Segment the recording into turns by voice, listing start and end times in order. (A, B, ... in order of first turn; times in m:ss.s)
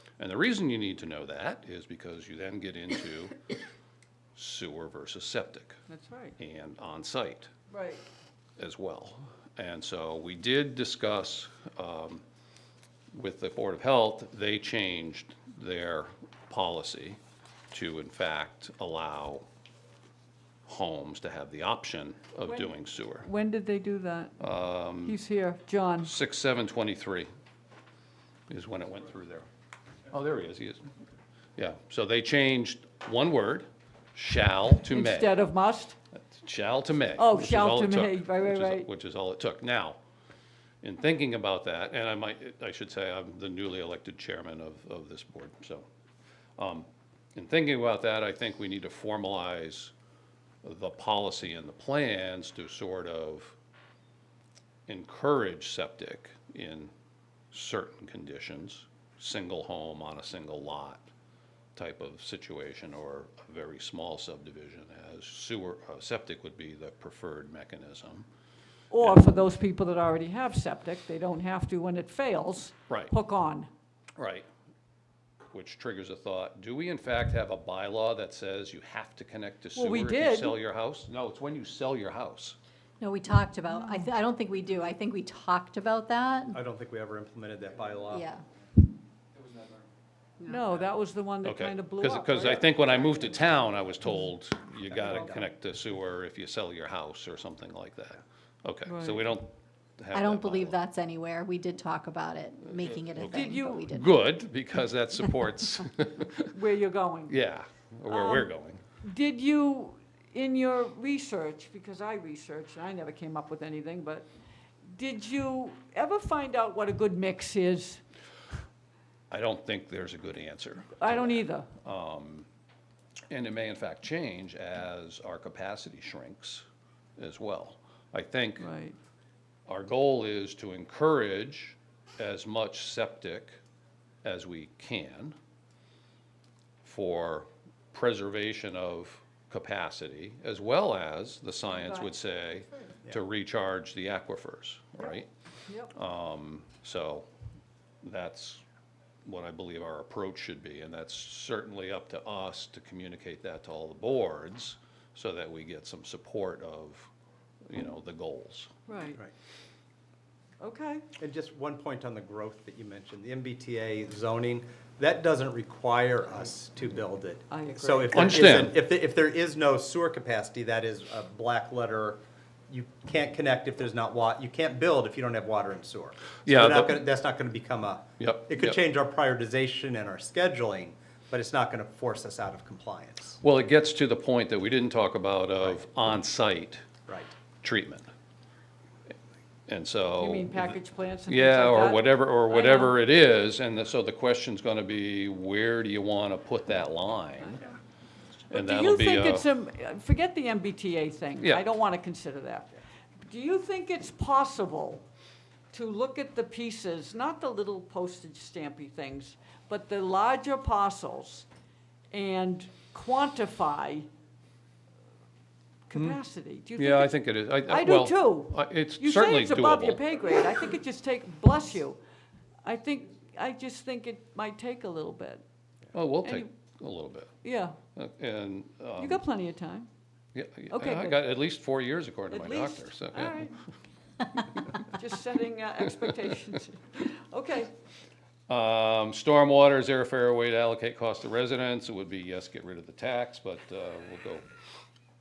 0:00.2-0:03.4 A
0:04.4-0:05.8 A
0:05.9-0:06.4 B
0:06.4-0:07.5 A
0:07.7-0:08.0 B
0:08.6-0:12.2 A
0:13.1-0:17.2 A
0:17.7-0:19.4 A
0:20.7-0:23.3 A
0:22.4-0:24.4 B
0:24.4-0:25.2 A
0:25.0-0:26.1 B
0:26.0-0:27.3 A
0:28.5-0:29.5 A
0:30.1-0:30.9 A
0:31.6-0:35.4 A
0:34.9-0:36.0 B
0:36.1-0:40.0 A
0:37.2-0:38.9 B
0:40.8-0:45.9 A
0:46.6-0:49.9 A
0:50.6-0:53.6 A
0:54.9-0:56.9 A
0:57.5-1:01.1 A
1:01.8-1:08.3 A
1:08.9-1:13.7 B
1:09.0-1:09.4 A
1:14.2-1:14.5 A
1:15.5-1:22.6 A
1:19.8-1:20.6 B
1:23.0-1:26.6 C
1:23.8-1:24.0 B
1:26.5-1:28.3 D
1:28.1-1:28.4 C
1:30.4-1:33.5 B
1:31.4-1:40.8 A
1:38.9-1:39.2 B
1:40.1-1:44.1 C
1:42.7-1:46.5 A
1:43.3-1:43.8 B
1:46.5-1:47.3 B
1:47.3-1:48.8 A
1:48.1-1:48.5 B
1:49.0-1:54.3 B
1:54.9-1:58.0 B
1:59.3-2:02.5 A
2:01.0-2:01.7 B
2:03.3-2:06.6 A
2:07.2-2:08.7 A
2:08.6-2:09.0 B
2:09.7-2:13.6 A
2:14.2-2:15.4 A
2:16.8-2:25.3 A
2:21.7-2:22.2 B
2:25.7-2:25.9 B
2:25.9-2:27.3 A
2:28.0-2:28.6 A
2:29.2-2:37.1 A
2:37.7-2:38.7 A
2:38.9-2:39.2 B
2:40.6-2:41.0 B
2:41.2-3:03.4 D
2:47.5-2:48.3 B
2:48.1-2:48.8 A
2:56.5-2:57.0 A
2:58.2-2:58.8 A
3:03.4-3:06.8 A
3:07.1-3:07.3 D
3:07.6-3:08.1 A
3:09.7-3:10.8 A
3:10.2-3:13.0 B
3:11.3-3:17.7 A
3:18.5-3:19.5 A
3:18.5-3:25.0 B
3:25.7-3:31.5 B
3:32.1-3:34.1 B
3:35.9-3:42.0 B
3:36.8-3:40.0 A
3:42.6-3:45.4 B
3:45.9-3:47.3 A
3:47.4-3:47.8 B
3:47.9-3:49.2 A
3:49.0-3:49.9 B
3:50.3-3:53.5 A
3:50.7-3:51.3 B
3:52.3-3:53.5 B
3:54.7-3:57.7 B
3:58.5-4:04.4 A